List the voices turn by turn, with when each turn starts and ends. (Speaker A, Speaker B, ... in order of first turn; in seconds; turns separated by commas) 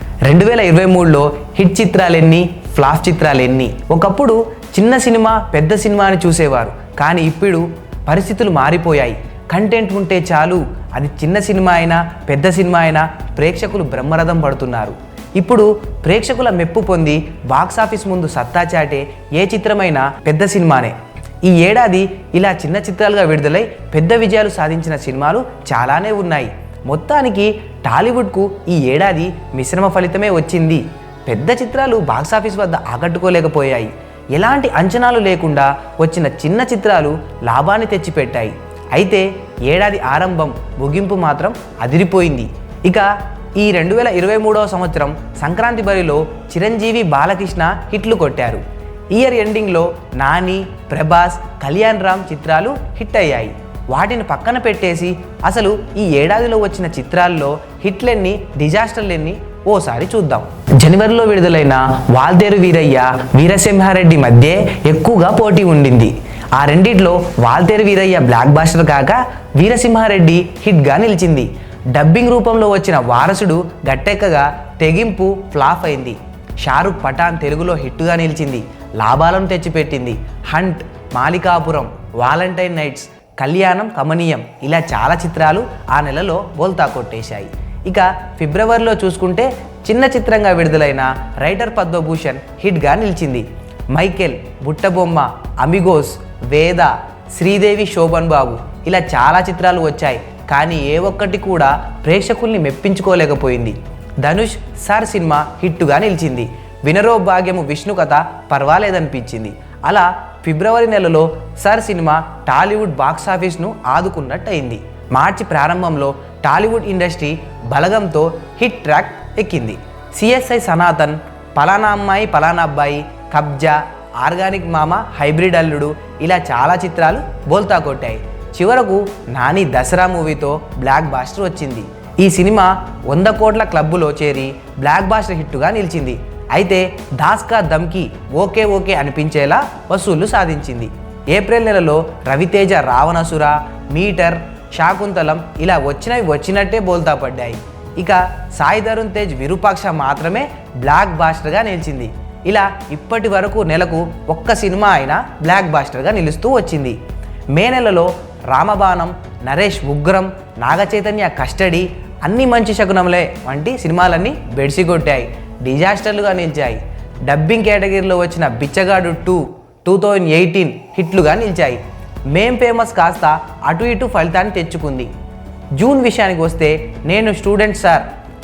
Speaker A: 0.2-157.0, Speaker A: 157.5-175.1, Speaker A: 175.8-178.1